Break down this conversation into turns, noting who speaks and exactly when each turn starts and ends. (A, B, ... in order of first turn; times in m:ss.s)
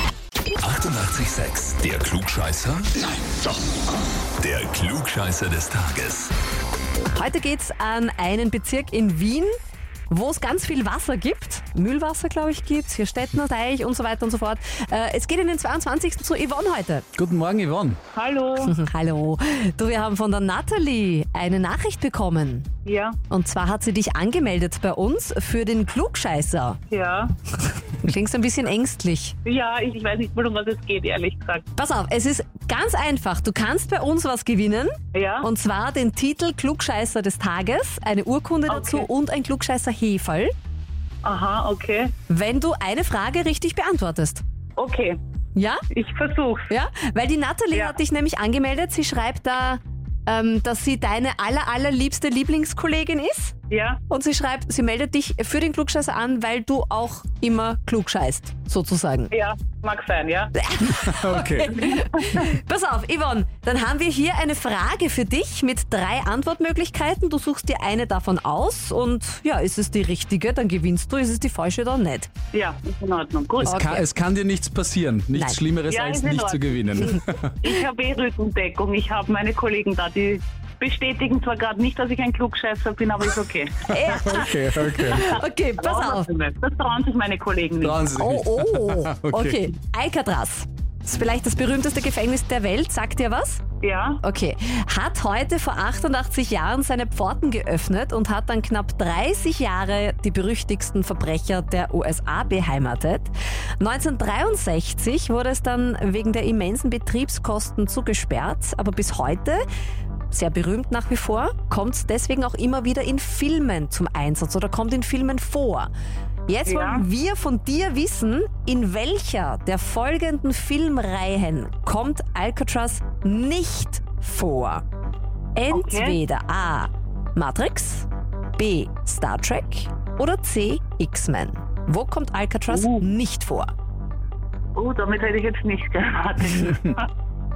0:00.6-0:02.9 A
0:04.4-0:06.3 A
0:07.1-0:09.5 B
0:10.1-0:17.1 B
0:17.2-0:18.0 C
0:18.1-0:18.7 D
0:18.6-0:22.7 B
0:22.9-0:23.2 D
0:23.3-0:26.8 B
0:26.9-0:27.4 D
0:27.9-0:29.4 B
0:29.4-0:31.7 D
0:31.8-0:40.5 B
0:35.1-0:35.5 D
0:38.7-0:39.1 D
0:41.2-0:42.1 D
0:42.3-0:44.4 B
0:44.8-0:45.2 D
0:45.6-0:45.8 B
0:45.9-0:46.7 D
0:46.7-0:53.6 B
0:53.7-0:54.0 D
0:54.1-0:59.3 B
0:59.3-1:00.5 D
1:00.6-1:12.3 B
1:00.8-1:01.9 C
1:01.9-1:02.4 D
1:12.5-1:13.8 D
1:13.6-1:17.4 C
1:13.6-1:14.1 B
1:15.9-1:24.4 D
1:23.9-1:26.3 B
1:24.1-1:25.4 C
1:25.1-1:28.1 D
1:27.8-1:29.7 C
1:28.2-1:33.6 B
1:33.8-1:34.2 D
1:34.2-1:49.6 B
1:50.3-1:55.9 B
1:56.5-2:04.8 B
1:56.7-1:57.0 D
2:05.6-2:13.7 B
2:05.7-2:06.2 D
2:12.7-2:13.1 D
2:14.8-2:17.1 D